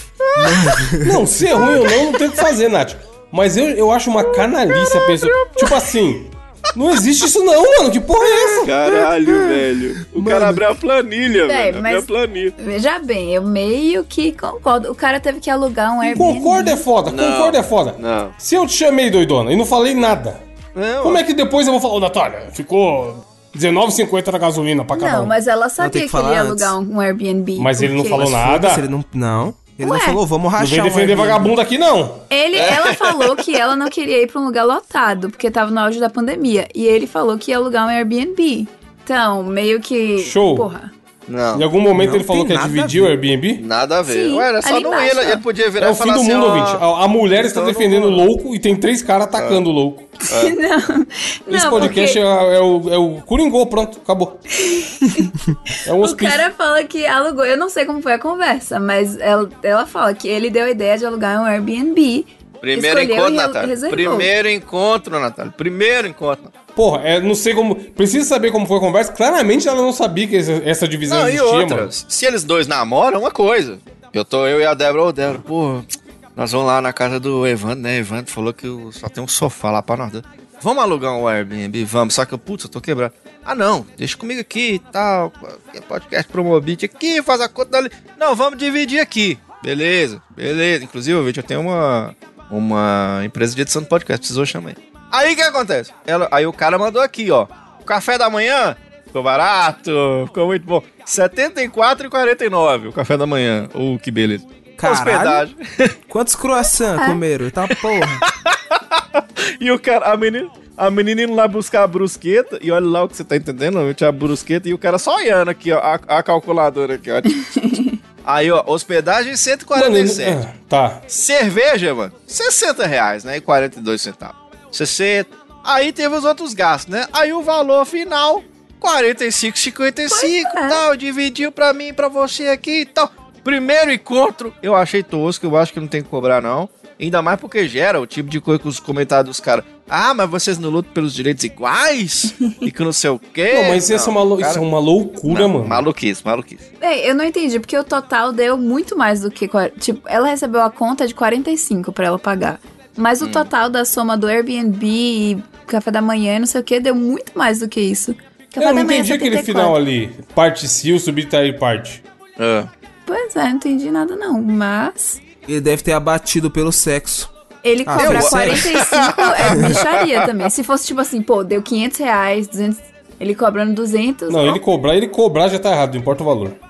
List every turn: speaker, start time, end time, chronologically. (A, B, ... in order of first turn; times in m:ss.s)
0:00.2-0:00.8 A
0:00.4-0:01.8 B
0:01.0-0:08.7 C
0:04.3-0:05.9 A
0:08.5-0:12.6 A
0:08.9-0:10.6 B
0:11.4-0:16.8 D
0:16.1-0:20.4 C
0:17.1-0:18.4 A
0:20.8-0:21.2 A
0:21.0-0:25.3 C
0:24.9-0:28.3 D
0:25.8-0:26.8 B
0:27.6-0:28.9 C
0:28.2-0:31.6 B
0:29.8-0:30.2 D
0:30.6-0:32.3 C
0:32.3-0:40.9 D
0:32.6-0:33.4 A
0:40.2-0:40.7 C
0:41.3-0:41.7 A
0:41.5-0:43.6 C
0:41.9-0:43.2 B
0:43.6-0:46.8 A
0:44.0-0:45.4 D
0:45.8-0:50.1 C
0:47.4-0:48.3 A
0:49.4-0:49.6 A
0:50.3-0:50.6 A
0:50.3-0:52.2 D
0:51.5-0:54.4 C
0:54.6-0:55.4 D
0:55.8-0:56.5 C
0:56.0-1:04.3 D
1:02.6-1:06.5 A
1:06.8-1:11.9 C
1:11.1-1:46.0 A
1:44.8-1:45.5 B
1:46.1-1:48.2 B
1:48.0-2:00.4 A
1:57.5-1:57.8 D
1:59.7-2:01.0 C
2:01.1-2:24.6 A
2:10.1-2:10.8 D
2:23.5-2:25.8 C
2:25.3-2:26.6 A
2:26.8-2:39.8 D
2:33.2-2:33.5 A
2:38.6-2:42.0 C
2:42.4-2:42.7 A
2:43.1-2:45.2 D
2:45.5-2:47.3 B
2:47.6-2:54.6 D
2:47.9-2:48.7 B
2:48.0-2:50.3 A
2:49.5-2:49.8 B
2:54.3-2:56.6 C